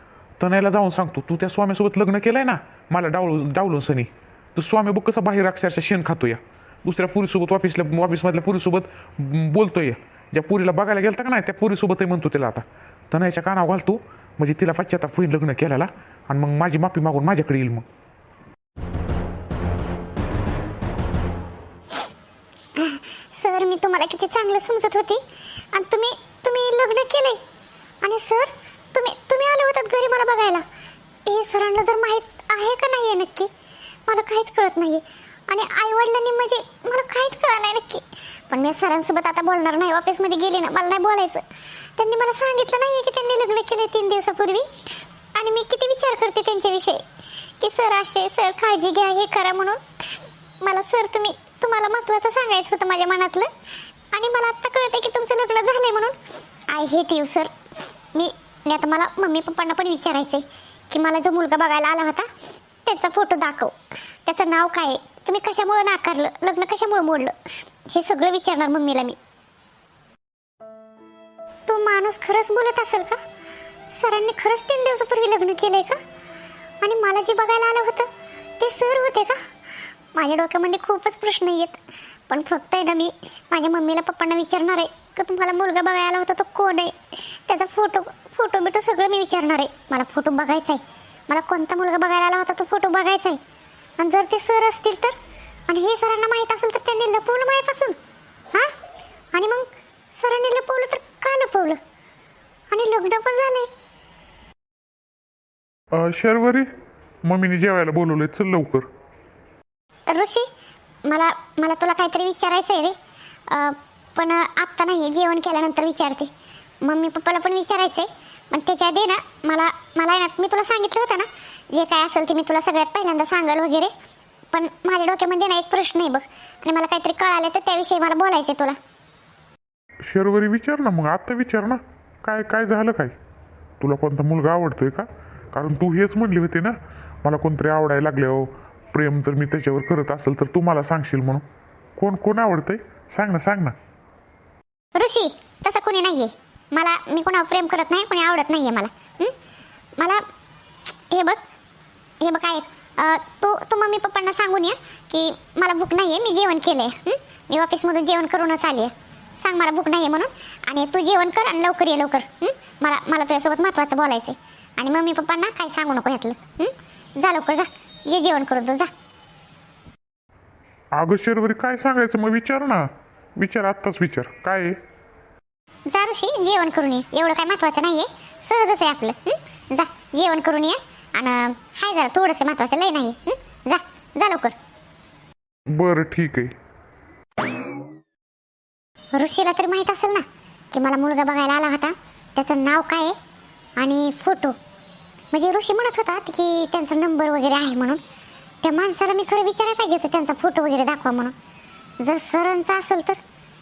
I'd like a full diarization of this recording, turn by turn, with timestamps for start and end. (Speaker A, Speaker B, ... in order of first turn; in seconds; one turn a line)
Speaker A: 0.4-17.9
Speaker B: 22.8-27.4
Speaker B: 28.0-30.6
Speaker B: 31.3-33.5
Speaker B: 34.1-41.4
Speaker B: 42.0-47.0
Speaker B: 47.6-53.5
Speaker B: 54.1-56.2
Speaker B: 56.7-57.5
Speaker B: 58.1-62.3
Speaker B: 62.9-63.7
Speaker B: 64.3-67.4
Speaker B: 67.9-69.2
Speaker B: 71.7-73.2
Speaker B: 74.0-76.0
Speaker B: 76.8-78.1
Speaker B: 78.6-79.4
Speaker B: 80.1-93.4
Speaker B: 94.0-95.2
Speaker B: 95.7-98.0
Speaker B: 99.3-101.8
Speaker B: 102.7-103.7
Speaker A: 105.9-106.7
Speaker A: 107.2-108.9
Speaker B: 110.1-110.5
Speaker B: 111.0-113.0
Speaker B: 113.5-116.3
Speaker B: 116.8-123.9
Speaker B: 124.5-128.8
Speaker A: 130.1-133.2
Speaker A: 133.8-141.4
Speaker A: 142.0-143.8
Speaker B: 144.9-149.3
Speaker B: 150.0-150.2
Speaker B: 151.1-151.4
Speaker B: 152.2-168.9
Speaker A: 170.9-174.8
Speaker B: 175.9-184.6
Speaker A: 185.7-186.5
Speaker B: 189.1-193.2
Speaker B: 193.8-194.6
Speaker B: 195.3-198.0
Speaker B: 198.6-201.3
Speaker B: 202.0-203.2